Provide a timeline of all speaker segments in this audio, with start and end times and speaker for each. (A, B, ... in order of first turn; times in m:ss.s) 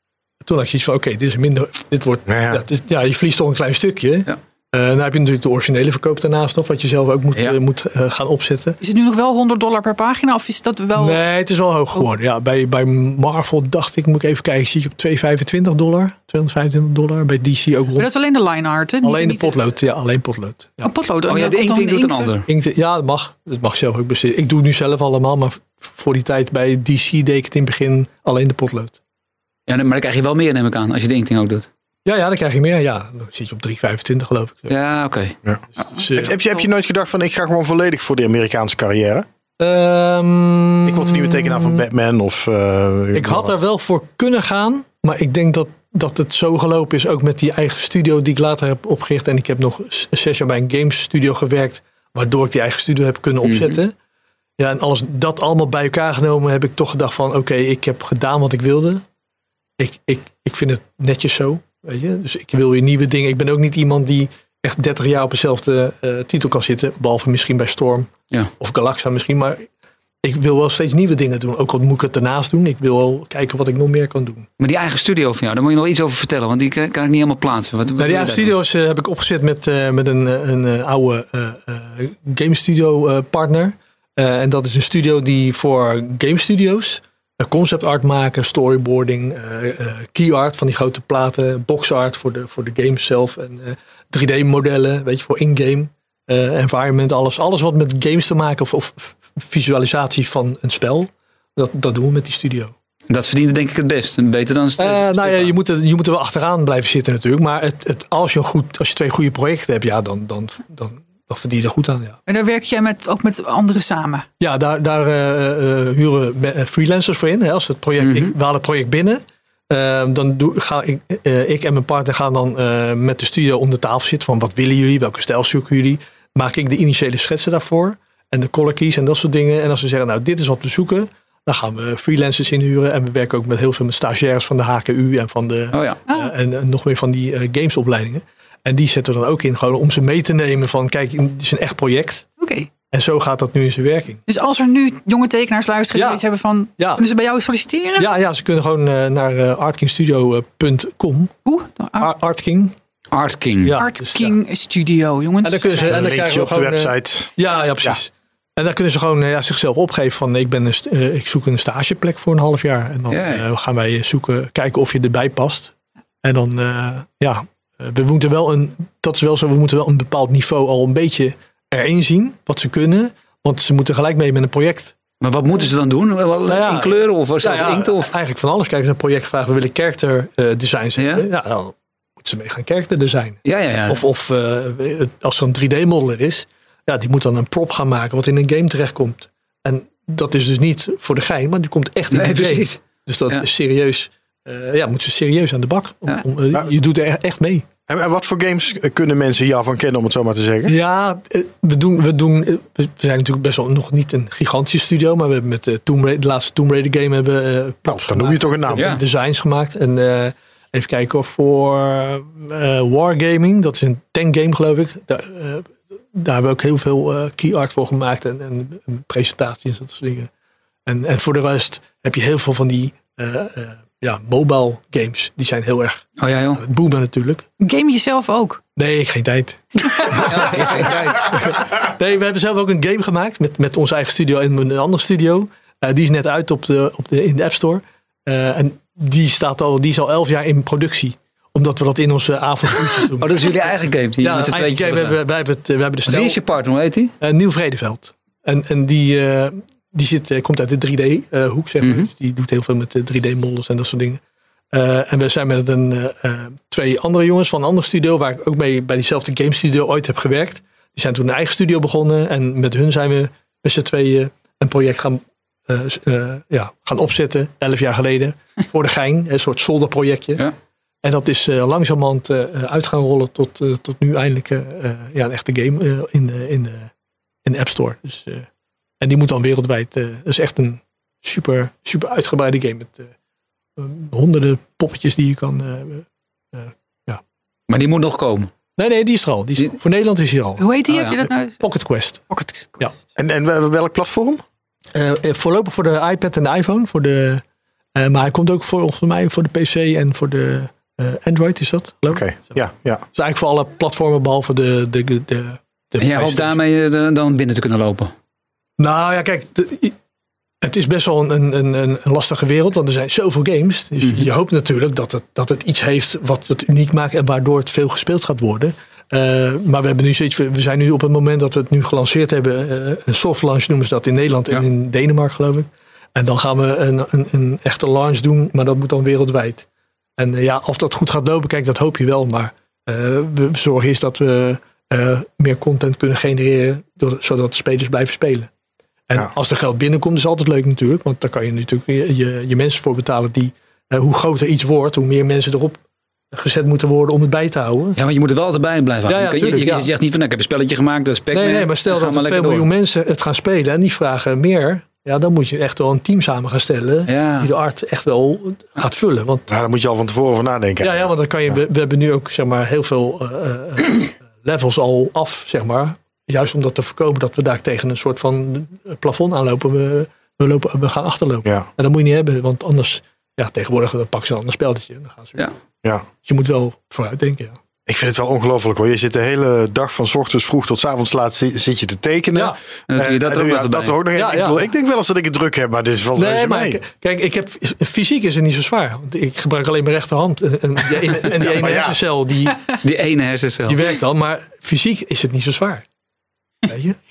0:00.4-0:08.8 A
0:02.3-0:02.6 B
0:08.8-0:11.2 C
0:11.0-0:18.1 A
0:18.0-0:19.6 C
0:19.0-0:20.9 A
0:20.8-0:22.3 C
0:21.2-0:22.5 D
0:22.5-0:29.0 A
0:29.7-0:31.7 D
0:32.0-0:34.7 A
0:34.7-0:35.4 D
0:35.8-0:36.3 A
0:36.1-0:39.2 B
0:39.6-0:41.8 A
0:40.8-0:43.5 B
0:43.1-0:53.9 A
0:53.4-0:53.8 D
0:54.6-0:59.0 A
0:59.8-1:09.7 A
1:10.2-1:14.5 A
1:14.6-1:18.5 D
1:18.0-1:42.7 A
1:43.1-1:45.5 D
1:44.8-1:52.2 A
1:52.3-1:54.2 C
1:54.4-2:22.2 A
1:58.0-1:58.3 D
2:15.7-2:16.0 D
2:22.4-2:22.7 C
2:22.9-2:24.2 A
2:24.3-2:28.1 C
2:25.9-2:26.2 A
2:26.8-2:27.0 A
2:28.0-2:31.3 A
2:31.4-2:32.1 C
2:32.0-2:32.7 A
2:33.1-2:33.8 D
2:33.6-2:34.4 A
2:33.8-2:36.1 C
2:35.4-2:55.0 A
2:35.7-2:38.0 B
2:43.1-2:43.4 D
2:55.2-2:58.1 D
2:56.5-3:17.6 A
3:01.0-3:01.2 D
3:03.4-3:04.0 D
3:12.1-3:13.4 D
3:17.9-3:20.7 B
3:20.7-3:40.3 A
3:27.8-3:28.9 B
3:28.8-3:29.0 D
3:40.8-3:47.4 A
3:46.2-3:46.6 D
3:47.6-3:48.6 C
3:48.8-4:03.5 A
3:50.1-3:51.5 D
4:03.1-4:05.2 D
4:04.2-4:06.4 A
4:06.0-4:07.1 D
4:07.2-4:14.2 A
4:11.8-4:12.1 D
4:14.7-4:30.5 A
4:31.0-4:36.9 A
4:37.4-4:38.5 A
4:39.0-4:43.1 A
4:43.8-4:47.2 A
4:47.7-4:48.5 D
4:48.8-4:50.7 A
4:50.6-4:51.6 C
4:50.9-4:51.2 D
4:51.6-4:52.2 A
4:52.3-4:52.9 C
4:53.2-4:54.4 B
4:54.9-4:57.4 A
4:57.9-5:02.6 A
5:02.1-5:03.0 B
5:03.1-5:06.6 A
5:06.0-5:08.1 D
5:08.8-5:09.9 A
5:10.6-5:29.6 A
5:30.2-5:38.5 A
5:39.1-5:45.8 A
5:46.3-5:48.0 A
5:48.0-5:52.7 D
5:49.1-5:49.9 A
5:51.3-5:59.4 A
5:57.1-5:57.5 D
5:59.5-6:01.5 B
6:00.8-6:15.5 A
6:16.2-6:17.6 A
6:17.8-6:26.8 B
6:22.9-6:24.0 D
6:24.1-6:24.6 A
6:26.1-6:32.6 A
6:31.3-6:32.0 B
6:32.8-6:33.8 D
6:33.7-6:35.8 A
6:36.7-6:37.0 A